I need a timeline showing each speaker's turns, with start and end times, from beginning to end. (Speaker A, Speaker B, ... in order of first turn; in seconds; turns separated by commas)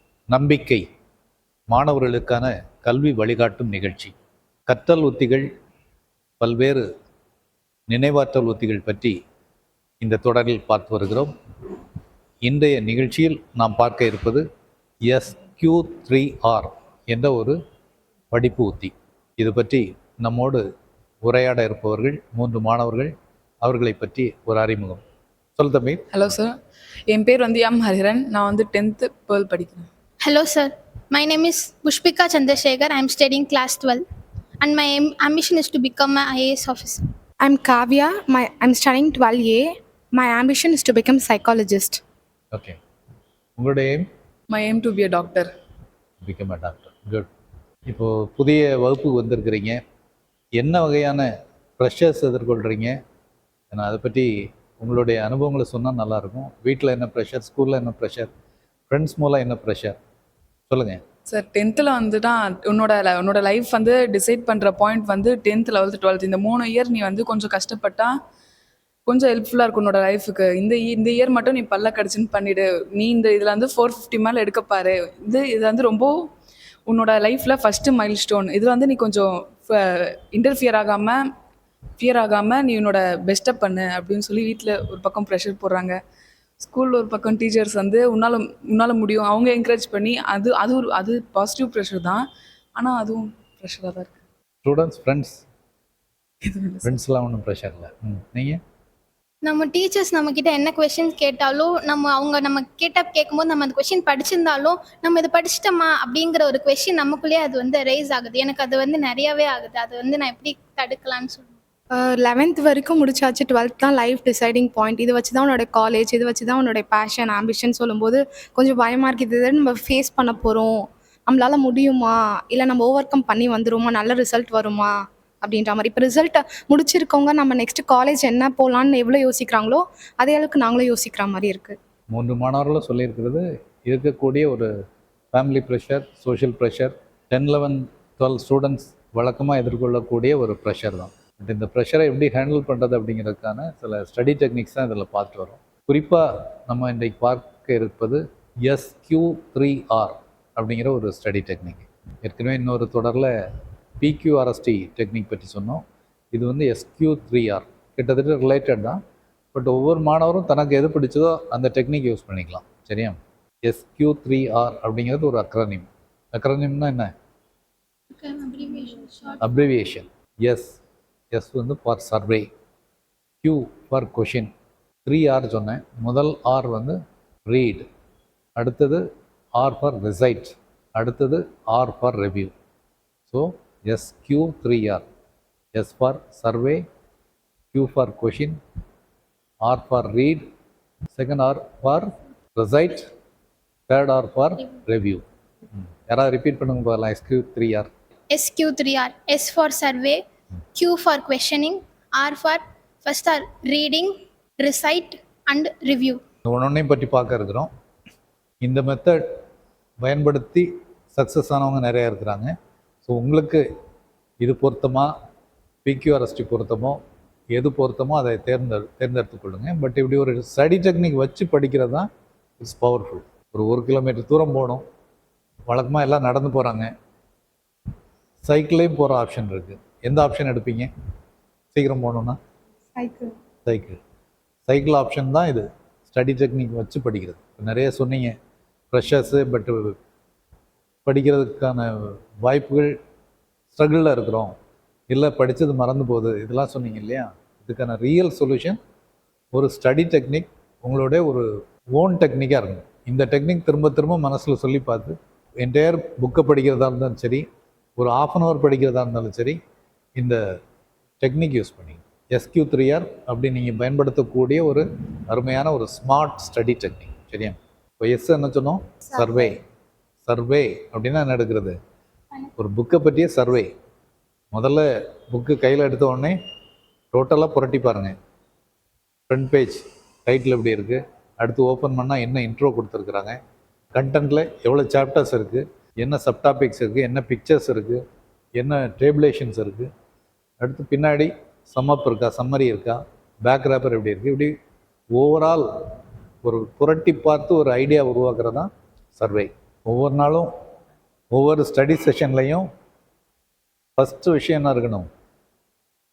Speaker A: 0.3-0.8, Speaker A: 1.7-4.1, Speaker A: 4.7-5.5, Speaker A: 6.4-6.8, Speaker A: 7.9-9.2, Speaker A: 10.0-11.3, Speaker A: 12.5-14.4, Speaker A: 15.1-17.6, Speaker A: 18.3-20.6, Speaker A: 21.2-25.0, Speaker A: 25.6-26.2, Speaker B: 26.1-26.6, Speaker B: 27.1-29.9, Speaker C: 30.2-34.0, Speaker C: 34.6-37.1, Speaker D: 37.4-42.0, Speaker A: 42.5-42.8, Speaker A: 43.6-44.1, Speaker B: 44.5-45.5, Speaker A: 46.2-47.3, Speaker A: 47.9-49.8, Speaker A: 50.6-53.0, Speaker A: 53.7-58.3, Speaker A: 58.9-60.0, Speaker A: 60.7-61.0, Speaker B: 61.3-68.1, Speaker B: 69.1-76.2, Speaker B: 76.9-81.2, Speaker B: 82.0-86.0, Speaker B: 86.6-92.2, Speaker B: 92.8-94.1, Speaker A: 94.6-95.4, Speaker B: 96.4-97.0, Speaker A: 96.8-98.6, Speaker C: 99.4-111.5, Speaker D: 111.9-131.8, Speaker A: 132.1-134.7, Speaker A: 135.3-153.3, Speaker A: 154.0-159.0, Speaker A: 159.5-167.1, Speaker C: 168.1-169.7, Speaker A: 169.4-170.8, Speaker A: 171.3-172.5, Speaker A: 173.4-174.5, Speaker A: 175.1-177.9, Speaker A: 178.6-179.1, Speaker A: 179.6-182.5, Speaker A: 183.3-185.1, Speaker A: 185.8-186.8, Speaker A: 187.7-188.6, Speaker A: 189.7-190.5, Speaker A: 191.1-193.1, Speaker A: 193.9-195.2, Speaker A: 195.8-197.9, Speaker C: 198.3-200.2, Speaker C: 200.7-206.2, Speaker A: 206.4-207.7, Speaker A: 208.6-209.2, Speaker A: 210.0-213.7, Speaker A: 214.4-215.1, Speaker A: 215.8-217.0, Speaker A: 217.5-224.8, Speaker A: 225.7-226.9, Speaker A: 228.4-230.9, Speaker A: 231.7-232.4, Speaker D: 232.9-233.3, Speaker A: 233.7-234.0, Speaker A: 234.7-238.4, Speaker A: 238.9-240.0, Speaker A: 241.1-243.0, Speaker A: 243.7-244.6, Speaker A: 245.1-248.8, Speaker A: 249.5-257.5, Speaker A: 258.0-259.6, Speaker A: 261.2-269.6, Speaker A: 270.2-271.8, Speaker A: 272.6-273.7, Speaker A: 274.5-276.4, Speaker A: 277.1-278.2, Speaker A: 279.3-283.4, Speaker A: 284.0-288.0, Speaker A: 288.6-289.9, Speaker A: 290.6-294.5, Speaker A: 295.1-295.7, Speaker A: 296.4-300.5, Speaker A: 301.3-302.7, Speaker A: 304.0-305.1